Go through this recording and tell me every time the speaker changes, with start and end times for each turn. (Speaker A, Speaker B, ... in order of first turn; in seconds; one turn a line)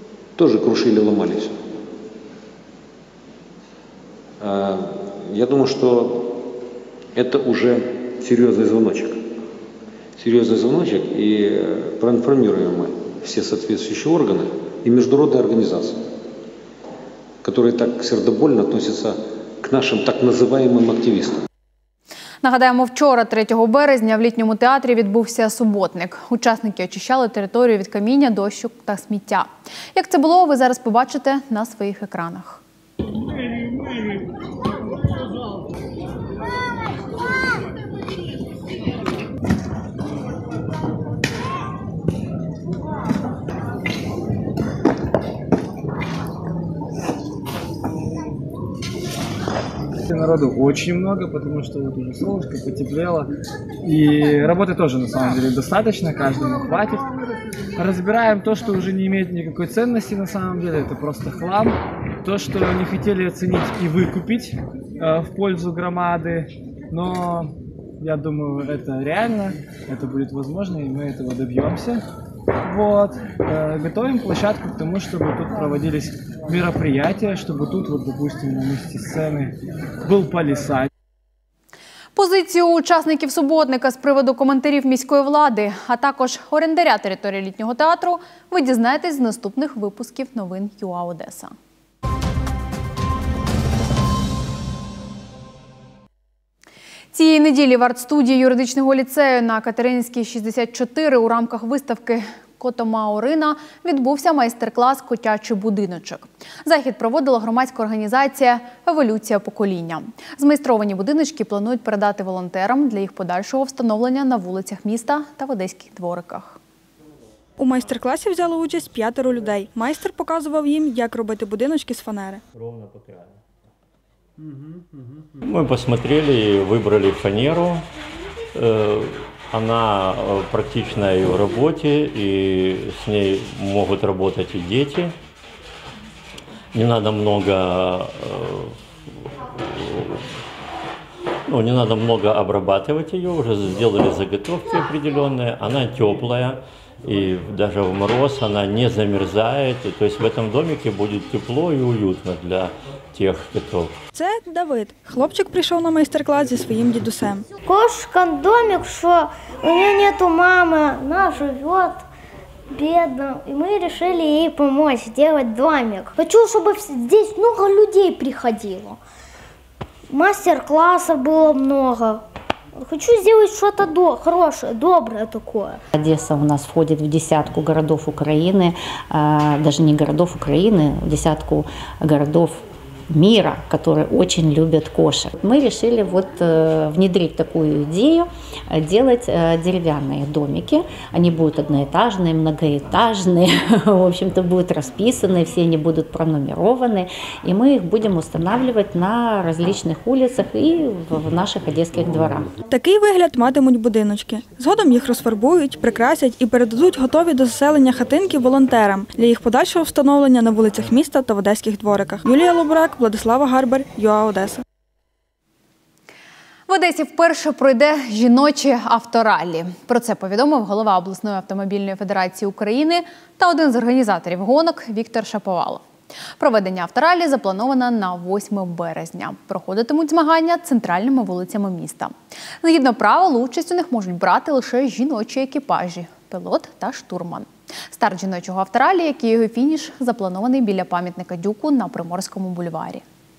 Speaker A: 0.4-1.6
Speaker A: 4.4-6.5
Speaker A: 7.2-9.2
Speaker A: 10.2-16.0
Speaker A: 17.4-21.4
Speaker B: 22.4-32.6
Speaker C: 50.1-53.3
Speaker C: 53.8-57.0
Speaker C: 57.8-72.0
Speaker C: 72.6-80.9
Speaker B: 82.2-91.5
Speaker B: 97.1-116.6
Speaker D: 117.6-122.4
Speaker E: 125.4-127.8
Speaker E: 128.6-135.1
Speaker E: 136.7-138.8
Speaker E: 139.5-140.2
Speaker E: 141.5-153.9
Speaker D: 154.2-157.4
Speaker F: 157.7-162.0
Speaker F: 162.7-169.0
Speaker F: 170.1-172.2
Speaker F: 172.8-175.8
Speaker G: 175.9-202.5
Speaker D: 202.7-214.6
Speaker B: 216.7-225.8
Speaker B: 226.4-243.0